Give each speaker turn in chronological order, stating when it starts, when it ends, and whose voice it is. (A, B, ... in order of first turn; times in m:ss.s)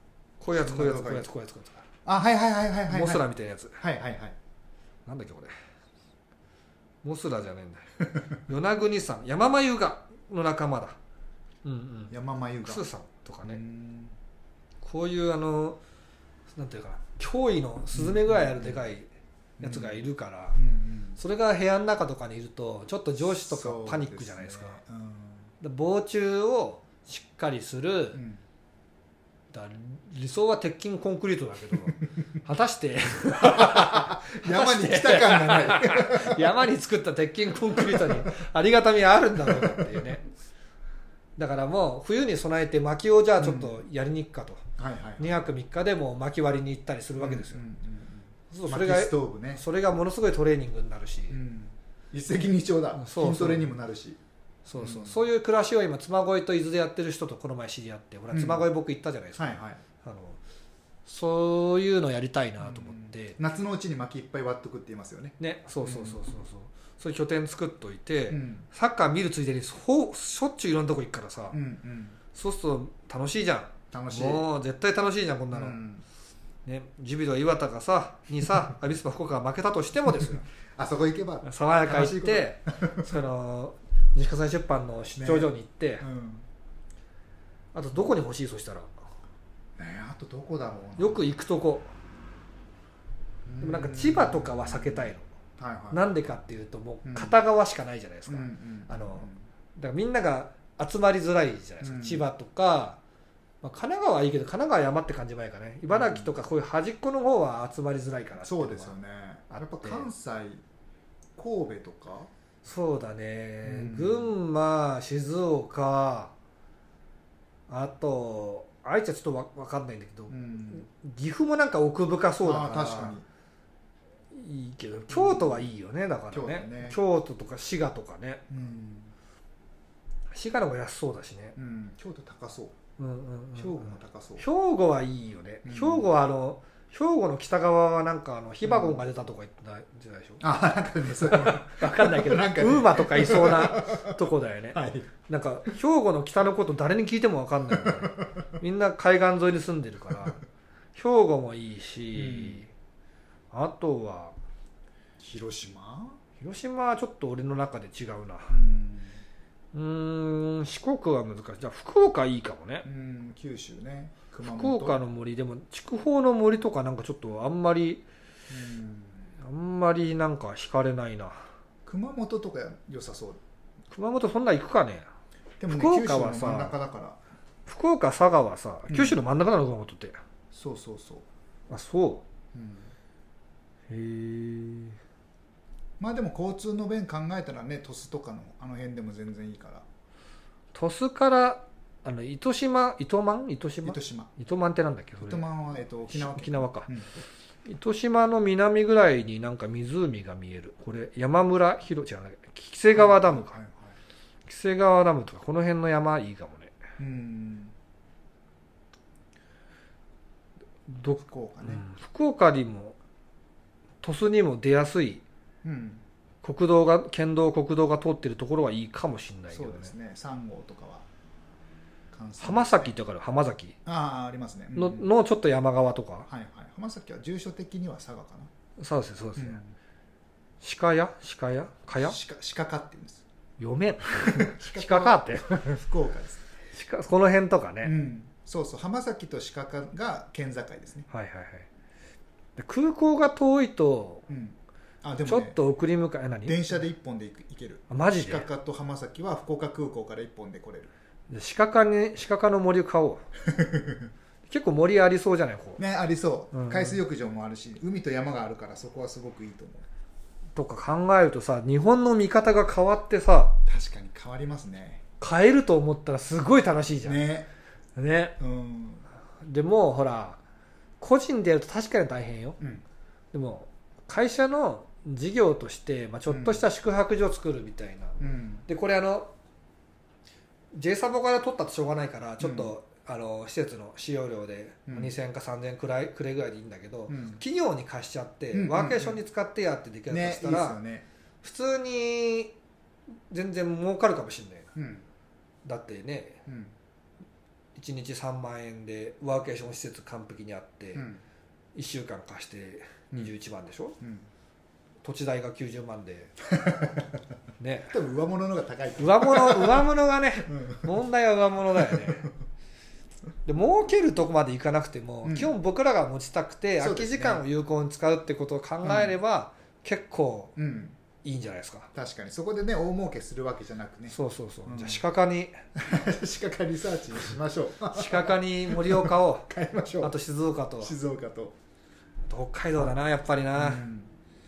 0:00.4-0:01.8 A
0:00.5-0:01.3 B
0:02.0-0:03.2 B
0:02.9-0:03.8 A
0:03.8-0:04.4 B
0:05.0-0:05.5 A
0:07.0-0:07.9 A
0:08.0-0:08.3 B
0:08.4-0:11.0 A
0:11.6-0:12.1 A
0:12.1-0:12.8 B
0:12.6-0:13.6 A
0:13.4-0:14.1 B
0:14.8-0:15.8 A
0:16.5-0:19.1 A
0:17.9-0:18.8 B
0:19.6-0:20.0 B
0:19.6-0:20.6 A
0:20.6-0:21.2 B
0:21.2-0:24.8 A
0:23.2-0:25.5 B
0:25.6-0:28.2 A
0:28.1-0:28.4 B
0:29.5-0:40.2 A
0:33.4-0:36.6 B
0:37.7-0:38.4 B
0:39.4-0:40.2 B
0:41.4-0:44.6 A
0:43.4-0:43.8 B
0:44.8-0:45.4 B
0:45.2-0:47.6 A
0:47.2-0:49.6 B
0:48.5-0:51.4 A
0:51.3-0:54.2 B
0:53.0-0:53.7 A
0:54.6-1:00.4 A
0:54.7-0:55.2 B
0:58.3-0:58.6 B
0:59.4-0:59.8 B
1:01.0-1:03.4 A
1:02.6-1:06.4 B
1:05.4-1:11.6 A
1:08.3-1:08.7 B
1:11.5-1:12.2 B
1:12.3-1:15.8 A
1:13.9-1:14.4 B
1:15.5-1:16.0 B
1:16.6-1:20.4 A
1:20.8-1:23.1 B
1:21.4-1:26.0 A
1:25.2-1:26.4 B
1:27.7-1:28.9 A
1:29.8-1:31.2 B
1:31.0-1:31.9 A
1:33.4-1:36.1 B
1:33.6-1:35.2 A
1:35.9-1:43.0 A
1:37.0-1:37.4 B
1:38.3-1:39.4 B
1:41.8-1:42.2 B
1:43.6-1:48.9 A
1:45.9-1:46.4 B
1:48.4-1:50.6 B
1:49.5-1:50.1 A
1:51.4-1:52.3 B
1:52.6-1:56.3 A
1:53.6-1:54.3 B
1:57.7-2:03.2 A
2:00.3-2:00.8 B
2:02.4-2:03.2 B
2:04.3-2:08.4 A
2:05.1-2:05.7 B
2:06.3-2:07.0 B
2:08.5-2:09.1 B
2:10.3-2:11.6 A
2:11.6-2:12.8 B
2:13.0-2:20.4 A
2:13.5-2:14.4 B
2:15.6-2:16.1 B
2:18.6-2:19.0 B
2:20.4-2:25.1 B
2:21.2-2:30.4 A
2:27.7-2:28.5 B
2:30.9-2:32.7 A
2:32.1-2:32.6 B
2:33.5-2:34.3 A
2:35.2-2:36.2 B
2:36.4-2:38.5 A
2:38.5-2:39.2 B
2:39.7-2:42.8 A
2:42.8-2:45.1 B
2:44.4-2:48.0 A
2:48.5-2:49.3 B
2:49.4-2:51.4 A
2:51.8-2:53.4 B
2:53.9-2:55.1 A
2:55.6-2:57.2 B
2:55.7-2:56.7 A
2:57.6-3:00.2 A
2:58.9-2:59.2 B
3:00.5-3:01.2 B
3:01.7-3:02.2 A
3:02.5-3:02.9 B
3:03.9-3:05.0 A
3:06.0-3:09.8 B
3:10.7-3:15.4 A
3:13.8-3:14.3 B
3:15.2-3:17.1 B
3:16.1-3:16.9 A
3:17.6-3:23.5 A
3:22.9-3:23.9 B
3:24.4-3:26.8 A
3:27.0-3:27.7 B
3:30.9-3:33.0 A
3:31.2-3:31.8 B
3:34.0-3:35.2 A
3:35.6-3:36.0 B
3:36.4-3:39.9 A
3:39.5-3:41.0 B
3:42.1-3:42.9 B
3:42.4-3:43.8 A
3:43.8-3:45.1 B
3:44.7-3:46.3 A
3:46.3-3:48.5 B
3:48.8-3:49.6 A
3:49.4-3:49.7 B
3:50.6-3:52.2 A
3:52.0-3:53.2 B
3:53.6-3:55.8 A
3:54.0-3:56.4 B
3:56.7-3:57.9 A
3:57.8-4:01.1 B
4:01.1-4:01.7 A
4:02.6-4:04.2 A
4:04.3-4:05.6 B
4:05.2-4:06.8 A
4:06.4-4:10.9 B
4:07.9-4:08.4 A
4:11.3-4:13.2 A
4:13.5-4:14.1 B
4:14.5-4:15.8 A
4:15.8-4:19.8 B
4:16.5-4:17.0 A
4:20.5-4:23.6 A
4:23.6-4:25.0 B
4:25.2-4:27.2 A
4:27.0-4:27.5 B
4:28.0-4:28.4 A
4:28.4-4:29.0 B
4:29.4-4:30.4 A
4:31.0-4:32.6 A
4:33.3-4:39.3 A
4:36.3-4:36.6 B
4:38.2-4:38.6 B
4:40.7-4:50.8 A
4:42.4-4:42.7 B
4:44.9-4:45.1 B
4:47.1-4:47.4 B
4:48.5-4:49.2 B
4:50.1-4:51.0 B
4:51.4-4:52.5 A
4:53.3-4:54.7 A
4:54.7-4:55.0 B
4:55.6-4:56.4 A
4:56.5-4:56.7 B
4:57.7-5:01.0 A
5:00.9-5:01.2 B
5:01.7-5:04.0 A
5:04.0-5:04.3 B
5:05.0-5:06.3 A
5:06.5-5:07.1 B
5:07.6-5:07.9 A
5:07.9-5:09.9 B
5:09.0-5:12.3 A
5:10.4-5:10.9 B
5:11.8-5:12.3 B
5:13.4-5:20.5 A
5:15.2-5:15.5 B
5:16.8-5:17.4 B
5:18.8-5:19.1 B
5:20.6-5:20.9 B
5:21.2-5:21.9 A
5:21.9-5:25.0 B
5:24.1-5:25.6 A
5:25.7-5:30.2 B
5:27.9-5:29.5 A
5:30.0-5:30.9 A
5:30.8-5:31.5 B
5:32.3-5:33.8 A
5:33.5-5:34.1 B